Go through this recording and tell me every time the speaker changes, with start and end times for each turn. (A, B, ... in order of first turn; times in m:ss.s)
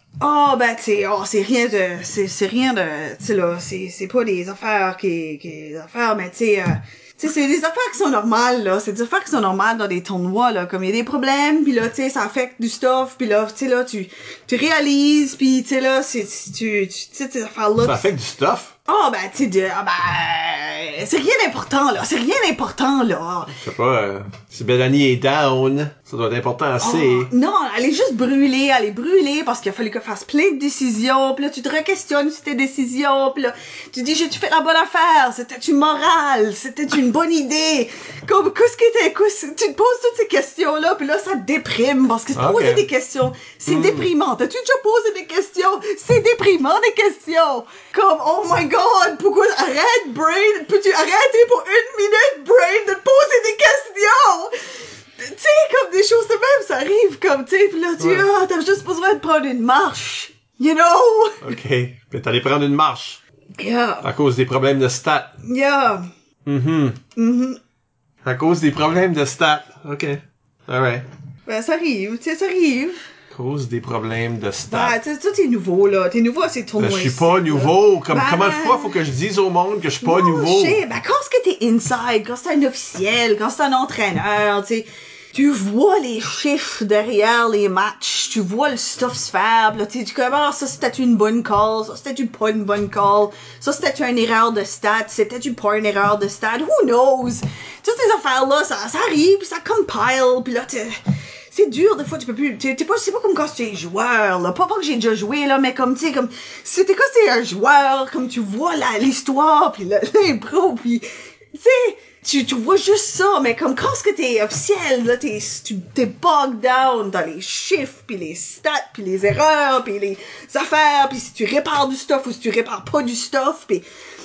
0:00.2-0:18.1 A
0:17.8-0:18.7 B
0:18.8-0:23.5 A
0:23.5-0:27.3 B
0:26.8-1:01.6 A
0:42.3-0:42.8 B
0:43.7-0:44.1 B
0:58.0-0:58.2 B
1:01.4-1:03.2 B
1:03.6-1:04.1 A
1:04.0-1:05.4 B
1:05.4-1:06.1 A
1:06.4-1:07.0 B
1:07.1-1:07.6 A
1:08.2-1:11.0 B
1:11.4-1:13.0 A
1:13.3-1:15.0 B
1:14.7-1:19.0 A
1:16.8-1:20.8 B
1:20.0-1:41.0 A
1:41.5-2:03.8 A